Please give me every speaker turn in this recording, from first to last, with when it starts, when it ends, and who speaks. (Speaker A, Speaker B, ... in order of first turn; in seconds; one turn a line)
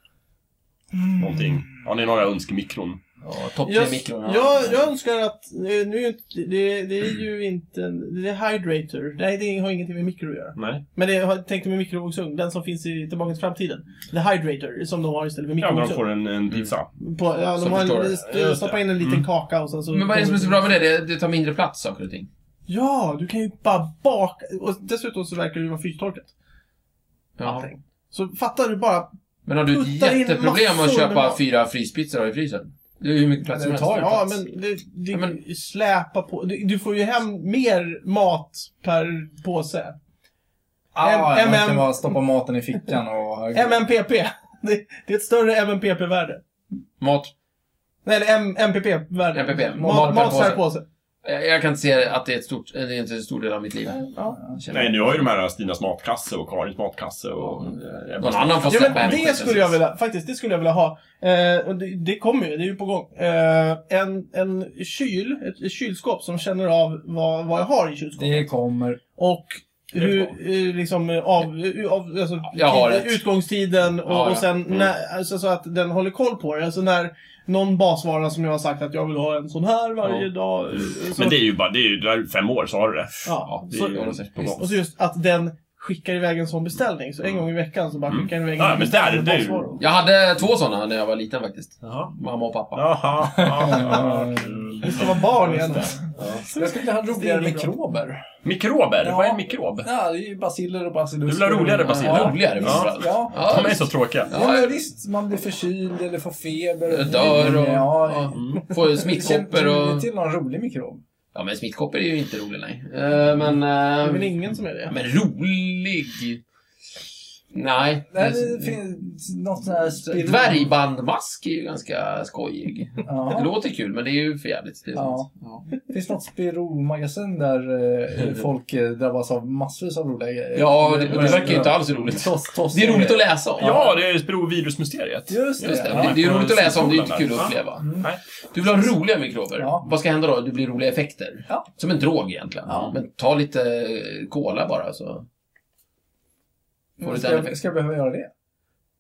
Speaker A: 0.9-1.6
Speaker B: 1.2-3.0
Speaker C: 3.2-4.8
Speaker D: 3.6-16.1
Speaker B: 10.6-10.8
Speaker B: 15.6-16.9
Speaker D: 17.0-20.7
Speaker C: 17.6-18.3
Speaker B: 18.3-19.3
Speaker C: 19.9-22.3
Speaker D: 22.7-26.3
Speaker C: 27.4-27.7
Speaker D: 27.4-29.1
Speaker C: 29.5-34.3
Speaker D: 29.7-31.4
Speaker A: 33.5-34.3
Speaker D: 34.0-40.0
Speaker C: 35.1-35.4
Speaker A: 40.9-43.8
Speaker D: 41.0-42.2
Speaker D: 43.5-46.4
Speaker C: 47.0-47.3
Speaker D: 48.0-50.9
Speaker C: 49.3-50.7
Speaker A: 49.8-50.5
Speaker C: 51.2-55.0
Speaker D: 54.1-54.4
Speaker B: 54.7-59.4
Speaker C: 58.2-59.8
Speaker D: 58.6-68.5
Speaker A: 68.2-69.0
Speaker D: 69.2-81.4
Speaker C: 72.5-73.2
Speaker C: 74.0-74.5
Speaker B: 80.9-84.8
Speaker D: 83.2-89.8
Speaker C: 83.4-84.6
Speaker B: 87.2-87.5
Speaker B: 88.1-89.8
Speaker C: 89.8-92.9
Speaker B: 91.8-92.1
Speaker B: 92.7-95.3
Speaker A: 93.4-94.5
Speaker D: 94.8-97.7
Speaker A: 95.4-98.2
Speaker B: 96.2-96.4
Speaker B: 98.4-99.9
Speaker A: 99.0-103.5
Speaker B: 101.3-104.4
Speaker C: 101.9-104.8
Speaker A: 104.3-111.0
Speaker C: 106.9-110.1
Speaker B: 108.3-108.6
Speaker C: 111.3-114.3
Speaker D: 114.0-115.0
Speaker C: 114.9-116.4
Speaker C: 117.5-118.8
Speaker A: 118.1-120.7
Speaker C: 120.1-125.7
Speaker A: 123.0-123.5
Speaker A: 125.0-125.3
Speaker A: 125.9-133.9
Speaker C: 130.5-133.8
Speaker B: 133.6-138.2
Speaker A: 135.3-136.3
Speaker C: 135.6-137.9
Speaker A: 137.8-138.1
Speaker C: 138.5-145.3
Speaker A: 139.6-139.9
Speaker A: 147.0-148.3
Speaker C: 147.0-147.6